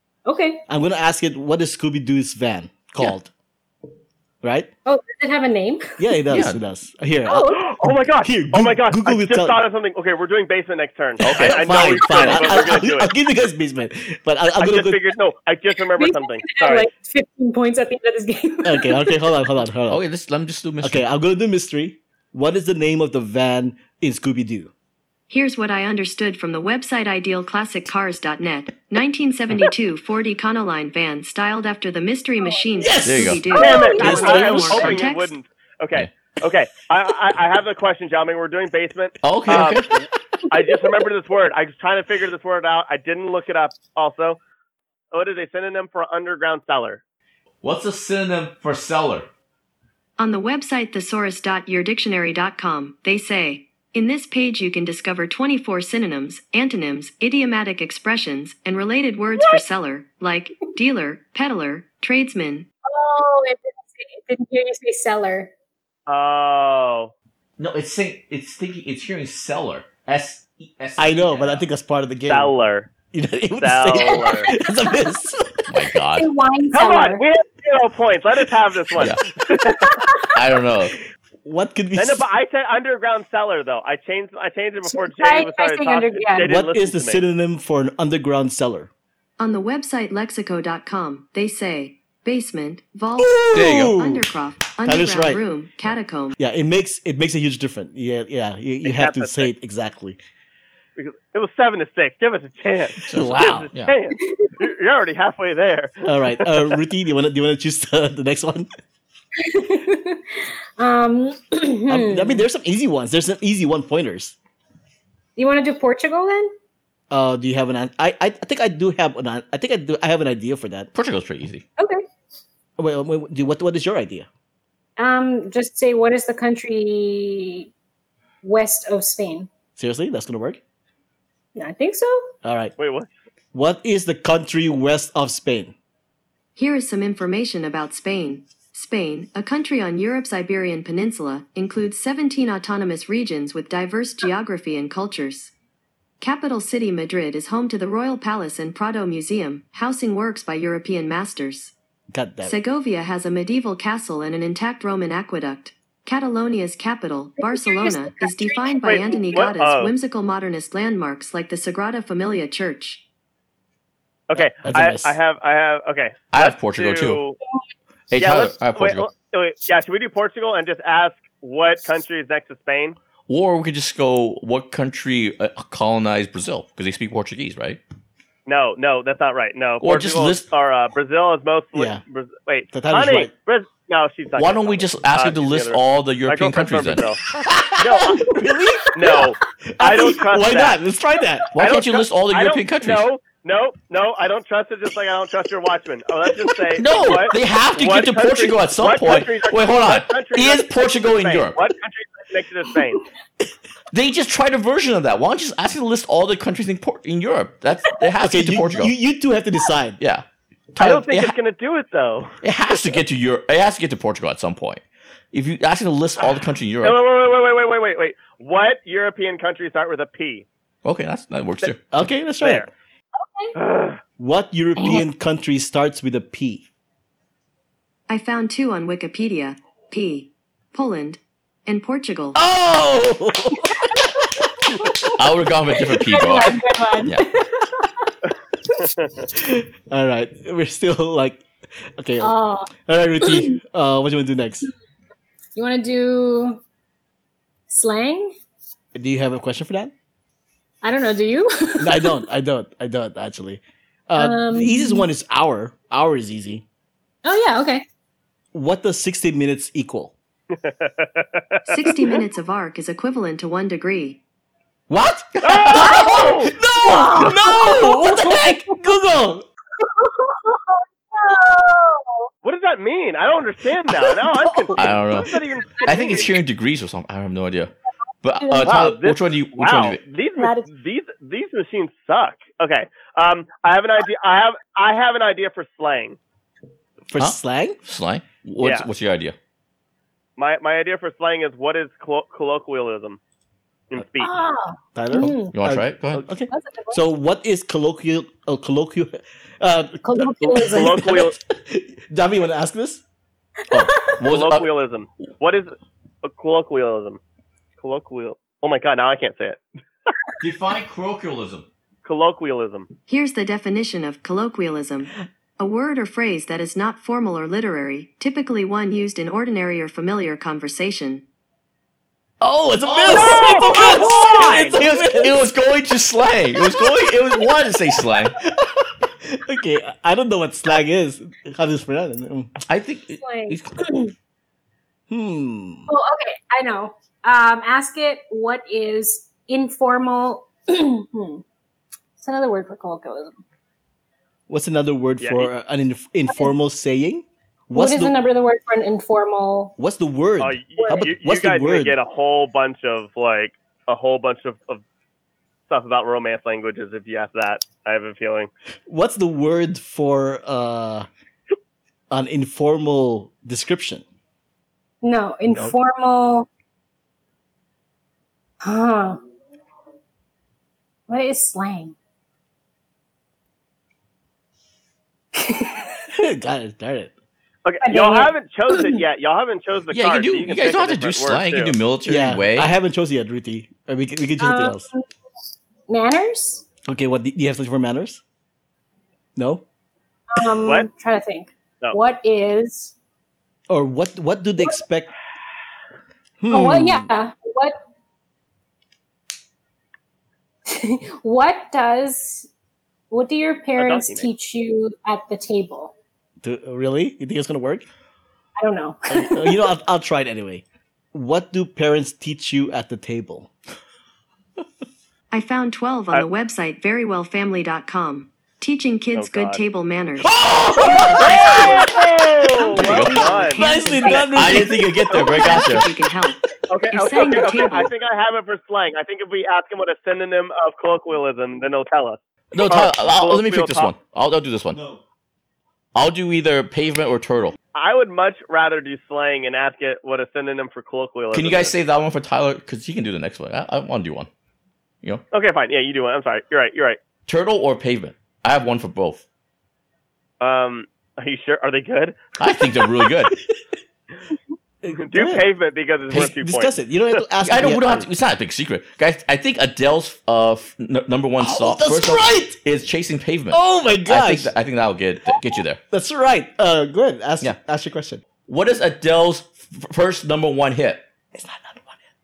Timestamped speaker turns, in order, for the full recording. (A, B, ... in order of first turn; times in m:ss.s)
0:00.2-0:00.6 A
0:00.7-0:03.3 B
0:04.4-0:04.7 B
0:04.8-0:06.0 A
0:06.0-0:09.6 B
0:06.3-0:06.6 C
0:07.3-0:07.6 A
0:07.5-0:13.1 D
0:11.2-0:12.6 C
0:11.3-0:15.1 B
0:14.6-0:16.9 D
0:16.0-0:19.3 A
0:18.6-0:20.0 B
0:19.9-0:21.0 C
0:20.8-0:24.7 B
0:25.3-0:35.3 E
0:32.8-0:35.0 B
0:33.0-0:33.5 C
0:33.5-0:34.4 A
0:33.5-0:39.9 D
0:39.2-0:39.9 C
0:40.5-0:44.4 D
0:40.6-0:40.9 A
0:45.1-0:47.0 D
0:47.6-0:49.3 C
0:50.2-1:02.7 E
1:02.8-1:05.5 A
1:06.1-1:07.1 D
1:07.6-1:11.6 C
1:11.0-1:12.5 B
1:12.3-1:12.9 D
1:13.1-1:15.6 B
1:13.6-1:14.5 D
1:15.7-1:16.3 C
1:16.1-1:17.2 A
1:16.7-1:19.9 D
1:19.0-1:19.2 C
1:19.8-1:20.2 A
1:20.3-1:20.9 C
1:21.4-1:22.2 B
1:22.0-1:27.2 D
1:24.8-1:26.5 A
1:26.4-1:28.9 B
1:29.4-1:36.4 E
1:33.2-1:34.2 B
1:33.5-1:34.0 C
1:34.8-1:35.4 B
1:36.4-1:40.2 B
1:38.8-1:39.5 D
1:41.0-1:46.8 D
1:43.0-1:43.9 C
1:44.2-1:44.5 A
1:46.0-1:48.7 B
1:49.4-1:52.4 A
1:51.9-1:54.4 B
1:55.4-1:56.5 A
1:57.1-2:00.9 B
2:00.9-2:01.6 C
2:01.8-2:02.0 A
2:02.8-2:04.3 B
2:05.0-2:07.7 A
2:08.4-2:09.5 A
2:09.8-2:10.6 B
2:11.5-2:12.3 A
2:12.4-2:12.7 B
2:12.8-2:13.1 D
2:13.5-2:15.7 B
2:16.6-2:25.5 E
2:26.2-2:31.7 E
2:32.1-2:32.6 B
2:32.4-2:43.0 E
2:37.4-2:39.2 A
2:38.8-2:39.9 D
2:44.3-2:47.4 D
2:44.4-2:45.2 B
2:46.3-2:47.2 C
2:48.1-2:49.1 C
2:48.2-2:53.0 D
2:53.3-2:57.8 C
2:58.5-3:07.2 D
2:59.8-3:00.5 C
3:01.7-3:02.0 B
3:02.7-3:03.3 B
3:04.4-3:07.1 C
3:07.3-3:11.6 B
3:07.8-3:08.2 D
3:08.9-3:10.8 D
3:11.5-3:13.1 C
3:11.6-3:23.0 D
3:16.8-3:21.6 C
3:23.9-3:28.9 C
3:28.2-3:30.0 B
3:30.0-3:31.4 C
3:30.8-3:32.4 D
3:32.4-3:37.0 C
3:36.3-3:40.4 D
3:40.8-3:41.9 C
3:41.9-3:42.7 B
3:42.4-3:42.7 D
3:43.2-3:43.6 A
3:43.6-3:44.0 D
3:44.2-3:46.6 B
3:44.8-3:45.0 A
3:48.1-3:52.4 E
3:52.3-3:54.2 B
3:53.6-3:54.0 A
3:54.7-3:55.1 A
3:55.2-3:57.2 C
3:55.8-3:58.1 A
3:58.8-3:59.2 D
3:59.3-4:01.4 B
4:02.0-4:04.7 B
4:02.2-4:03.6 A
4:05.6-4:06.6 A
4:07.7-4:08.3 A
4:08.9-4:09.9 B
4:10.8-4:12.2 A
4:11.8-4:16.6 B
4:14.2-4:15.1 A
4:17.2-4:17.8 A
4:18.5-4:20.1 B
4:20.5-4:21.7 D
4:21.7-4:24.2 E
4:24.9-4:29.4 B
4:25.4-4:26.5 D
4:25.7-4:26.2 A
4:26.7-4:28.8 A
4:29.8-4:32.3 A
4:32.4-4:36.3 D
4:34.2-4:34.9 B
4:34.8-4:37.7 C
4:35.8-4:36.3 A
4:38.2-4:40.0 C
4:38.4-4:38.8 A
4:38.6-4:46.2 D
4:40.4-4:40.7 A
4:47.1-4:47.8 B
4:47.2-4:49.3 C
4:48.6-4:48.9 D
4:50.4-4:53.2 D
4:53.9-4:54.3 D
4:54.2-4:55.5 A
4:54.9-5:03.0 B
4:55.2-4:56.2 C
4:56.5-4:57.0 A
5:00.0-5:01.1 A
5:00.4-5:01.3 D
5:03.7-5:04.1 A
5:03.7-5:04.7 C
5:04.2-5:07.2 D
5:07.8-5:09.6 D
5:10.4-5:11.6 C
5:12.0-5:12.9 D
5:13.1-5:21.2 E
5:22.4-5:28.3 C
5:22.8-5:25.4 B
5:23.1-5:24.3 A
5:24.3-5:24.7 D
5:28.5-5:32.5 B
5:32.6-5:33.8 C
5:33.2-5:34.1 A
5:35.1-5:35.9 B
5:35.9-5:41.4 A
5:42.2-5:43.4 A
5:44.5-5:48.2 B
5:45.2-5:45.5 D
5:47.7-5:49.8 A
5:49.8-5:52.0 B
5:50.4-5:54.8 D
5:50.8-5:51.1 A
5:55.7-5:58.5 D
5:58.9-6:01.1 B
6:02.1-6:04.0 B
6:05.0-6:06.5 A
6:08.6-6:09.2 A
6:11.1-6:12.0 A
6:15.3-6:16.1 A
6:16.1-6:17.1 B
6:17.6-6:21.8 D
6:17.8-6:19.0 A
6:19.9-6:22.7 C
6:22.0-6:24.9 B
6:24.4-6:25.0 A
6:25.9-6:26.6 A
6:26.9-6:28.2 B
6:29.4-6:29.6 B
6:30.3-6:32.9 A
6:33.7-6:35.1 B
6:36.4-6:37.1 B
6:36.5-6:37.8 A
6:40.7-6:42.5 A
6:43.1-6:45.9 A
6:43.8-6:44.3 D
6:46.4-6:47.8 B
6:48.6-6:49.7 A
6:49.1-6:53.5 B
6:55.3-7:07.9 E
6:59.2-6:59.6 D
7:00.2-7:01.9 B
7:01.2-7:03.6 D
7:02.8-7:03.5 C
7:03.4-7:05.8 B
7:04.1-7:05.9 C
7:05.1-7:05.5 D
7:06.7-7:13.9 D
7:12.5-7:14.8 C
7:14.7-7:15.0 B
7:15.9-7:17.6 C
7:17.7-7:21.8 D
7:21.3-7:24.3 C
7:25.3-7:27.0 D
7:27.3-7:29.2 C
7:30.4-7:32.2 D
7:32.4-7:33.3 C
7:34.8-7:35.5 B
7:35.0-7:36.7 D
7:36.1-7:38.1 B
7:37.4-7:45.8 C
7:41.4-7:42.6 B
7:43.5-7:44.5 B
7:45.9-7:48.2 B
7:48.4-7:51.0 C
7:51.3-7:52.0 B